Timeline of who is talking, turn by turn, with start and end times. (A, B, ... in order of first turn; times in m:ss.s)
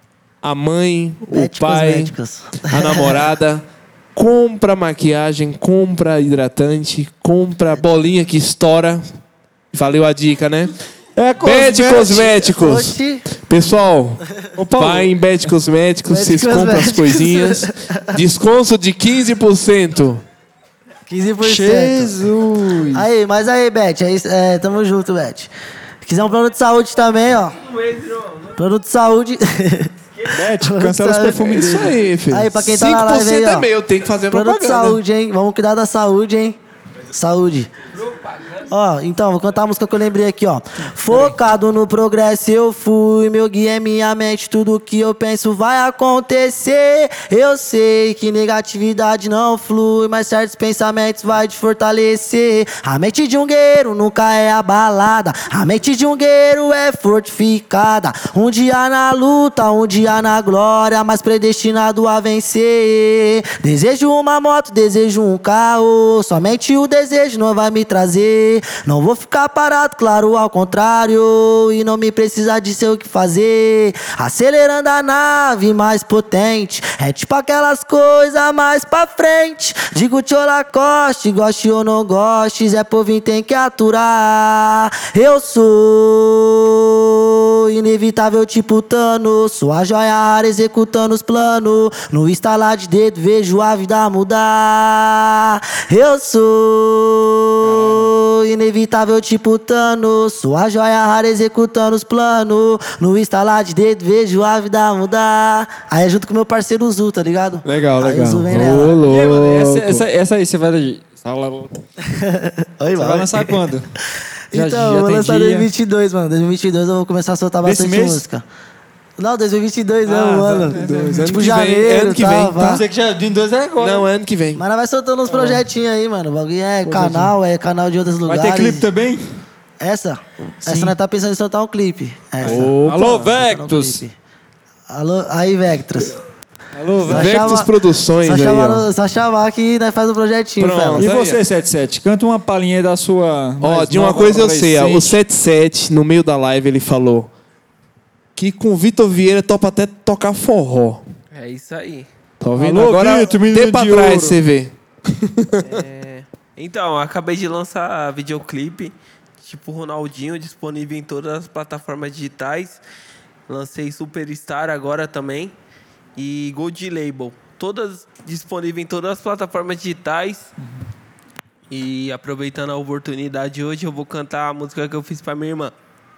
0:00.4-0:02.1 A
0:01.3-0:03.3 B
0:02.7-0:09.0 A
0:09.7-0:10.7 A
0:11.2-0:12.3 C
0:11.4-0:13.0 A
0:11.6-0:13.2 B
0:13.5-0:14.2 A
0:14.6-0:15.2 C
0:14.8-0:20.2 A
0:16.1-0:18.2 B
0:21.1-0:22.2 B
0:21.4-0:23.1 C
0:22.9-0:25.5 B
0:26.0-0:27.6 B
0:27.6-0:28.6 D
0:28.6-0:29.9 B
0:30.1-0:30.5 D
0:30.3-0:31.8 C
0:30.5-0:33.7 B
0:31.4-0:35.0 A
0:34.3-0:36.6 B
0:37.1-0:37.7 B
0:37.9-0:38.7 D
0:38.7-1:49.0 B
1:37.6-1:38.2 C
1:47.6-1:50.0 A
1:48.6-1:51.7 C
1:52.1-1:53.7 B
1:53.0-1:53.9 C
1:54.5-1:58.4 B
1:54.5-1:55.7 C
1:57.6-1:58.2 C
1:59.2-2:02.8 B
2:00.1-2:01.4 C
2:00.4-2:02.8 A
2:02.6-2:04.1 C
2:03.8-2:04.6 A
2:04.6-2:08.8 B
2:05.3-2:05.6 C
2:06.8-2:07.3 A
2:08.3-2:09.2 C
2:09.8-2:14.2 B
2:10.6-2:11.0 C
2:12.4-2:14.0 C
2:12.4-2:13.2 A
2:14.9-2:16.2 B
2:16.7-2:17.6 C
2:17.0-2:21.1 B
2:17.1-2:18.8 A
2:20.6-2:21.4 A
2:21.0-2:25.2 C
2:23.6-2:27.3 A
2:28.4-2:31.0 A
2:31.3-2:32.1 D
2:32.4-2:35.8 A
2:32.6-2:34.4 C
2:35.6-2:42.8 D
2:43.5-2:45.6 D
2:46.2-2:50.5 D
2:50.6-2:50.9 C
2:51.7-2:55.7 D